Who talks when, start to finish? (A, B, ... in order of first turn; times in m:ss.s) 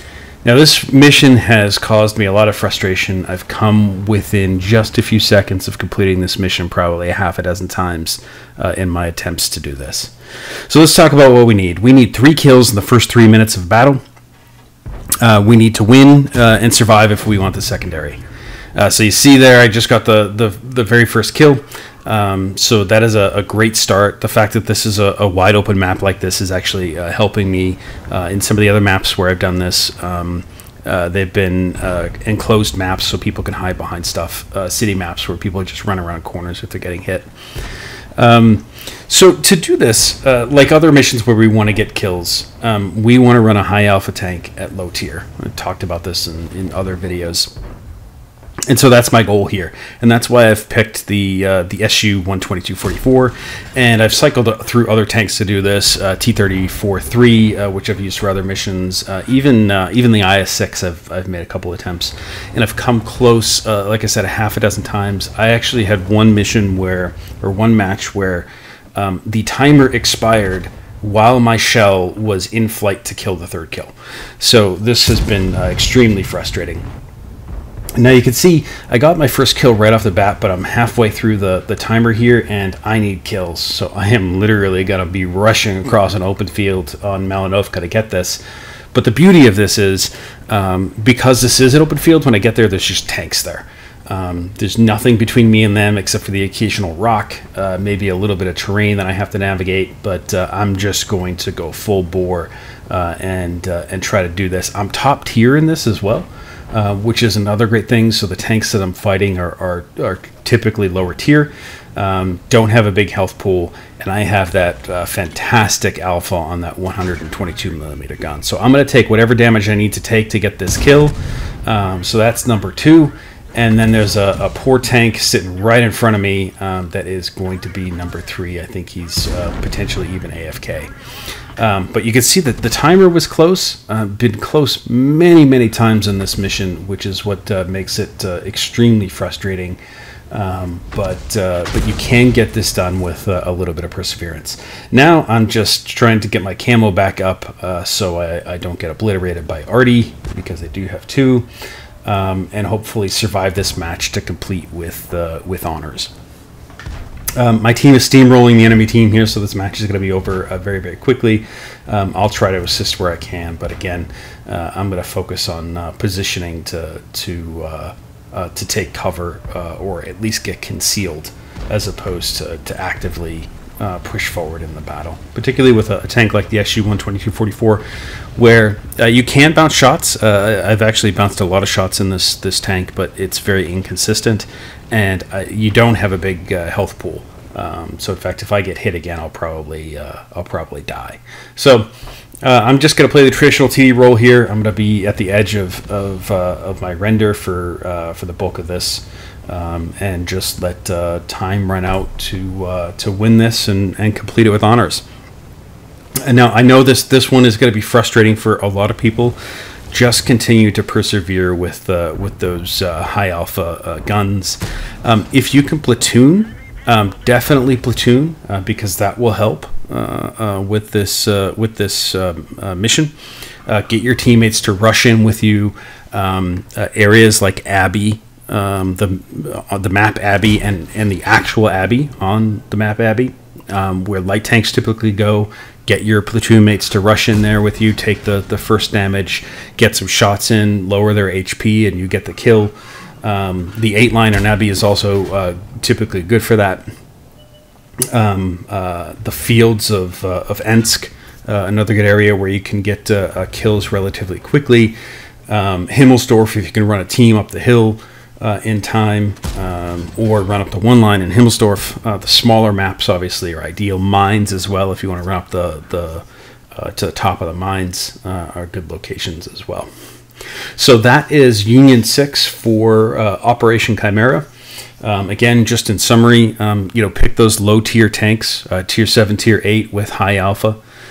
0:00.4-0:10.1 A
0:10.7-0:14.0 A
0:15.2-0:18.2 A
0:18.8-0:37.3 A
0:38.2-0:47.5 A
0:48.7-1:16.8 A
1:18.0-1:28.4 A
1:28.9-2:10.9 A
2:11.6-2:19.8 A
2:20.3-2:31.5 A
2:32.0-2:36.1 A
2:37.4-2:57.8 A
2:58.4-3:11.9 A
3:12.4-3:25.0 A
3:26.2-3:29.4 A
3:29.9-3:43.1 A
3:43.6-4:06.8 A
4:08.1-4:15.0 A
4:15.5-4:29.9 A
4:30.8-4:34.5 A
4:35.0-4:40.8 A